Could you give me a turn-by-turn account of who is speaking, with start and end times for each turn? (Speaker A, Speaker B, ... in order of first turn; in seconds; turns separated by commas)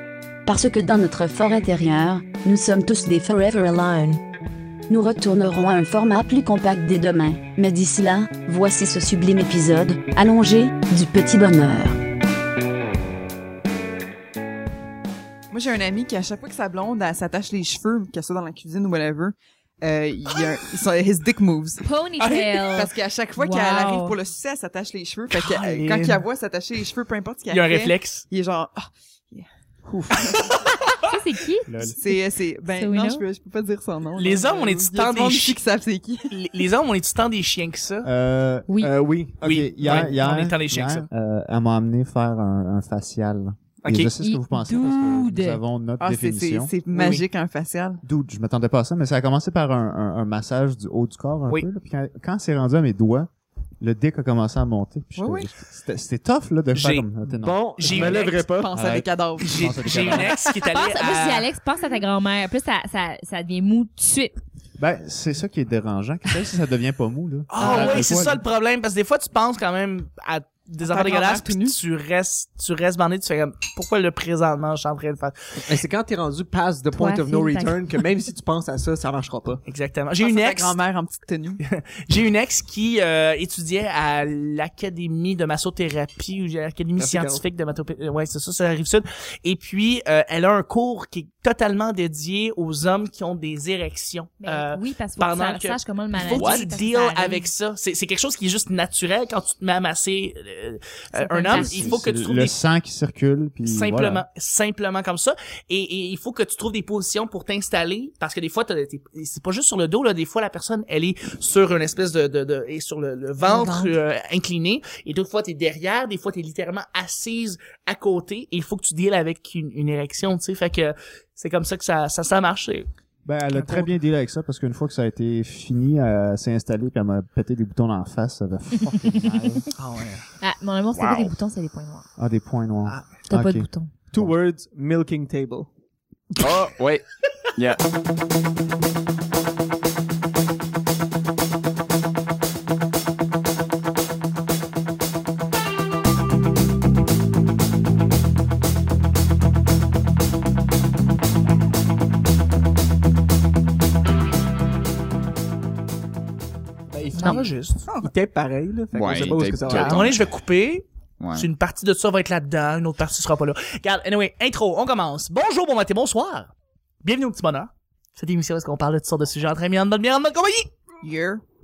Speaker A: 0.5-4.2, Speaker A: 4.9-12.0, Speaker B: 15.5-21.8, Speaker C: 21.8-24.1, Speaker D: 22.2-22.6, Speaker B: 22.7-29.5, Speaker E: 25.4-26.3, Speaker D: 27.5-28.2, Speaker F: 29.9-30.3, Speaker C: 31.0-31.8, Speaker E: 31.7-32.0, Speaker B: 31.8-36.3, Speaker C: 32.7-33.2, Speaker D: 34.2-35.6, Speaker D: 36.3-38.1, Speaker E: 38.0-46.7, Speaker F: 38.8-40.2, Speaker D: 39.4-41.1, Speaker F: 43.8-44.2, Speaker C: 44.2-45.6, Speaker B: 46.0-48.0, Speaker D: 46.9-47.2, Speaker E: 48.0-53.3, Speaker E: 53.8-58.2, Speaker B: 55.2-55.5, Speaker D: 56.7-57.1, Speaker F: 57.4-58.8, Speaker D: 57.8-58.5, Speaker B: 58.4-60.3, Speaker E: 58.8-60.4, Speaker D: 59.4-61.5, Speaker C: 60.7-64.4, Speaker E: 64.8-68.4, Speaker D: 67.5-75.3, Speaker B: 67.6-67.9, Speaker B: 70.8-71.8, Speaker F: 75.7-79.6, Speaker C: 76.9-77.8, Speaker D: 79.7-80.8, Speaker B: 80.2-81.6, Speaker D: 81.6-102.6, Speaker F: 87.0-87.4, Speaker C: 94.4-97.5, Speaker G: 96.2-96.7, Speaker C: 101.1-102.0, Speaker E: 101.5-104.2, Speaker D: 103.7-122.9, Speaker C: 113.4-113.9, Speaker E: 123.2-129.7, Speaker D: 123.5-123.9, Speaker D: 129.8-130.3, Speaker C: 130.4-132.1, Speaker G: 130.9-131.3, Speaker E: 132.2-134.3, Speaker C: 133.3-133.9, Speaker F: 134.1-135.7, Speaker G: 136.4-137.0, Speaker G: 137.6-137.8, Speaker F: 156.9-160.2, Speaker C: 157.2-157.4, Speaker D: 157.2-157.8, Speaker G: 158.9-160.3, Speaker D: 159.7-166.5, Speaker G: 161.2-161.5, Speaker D: 167.0-170.7, Speaker B: 171.0-171.4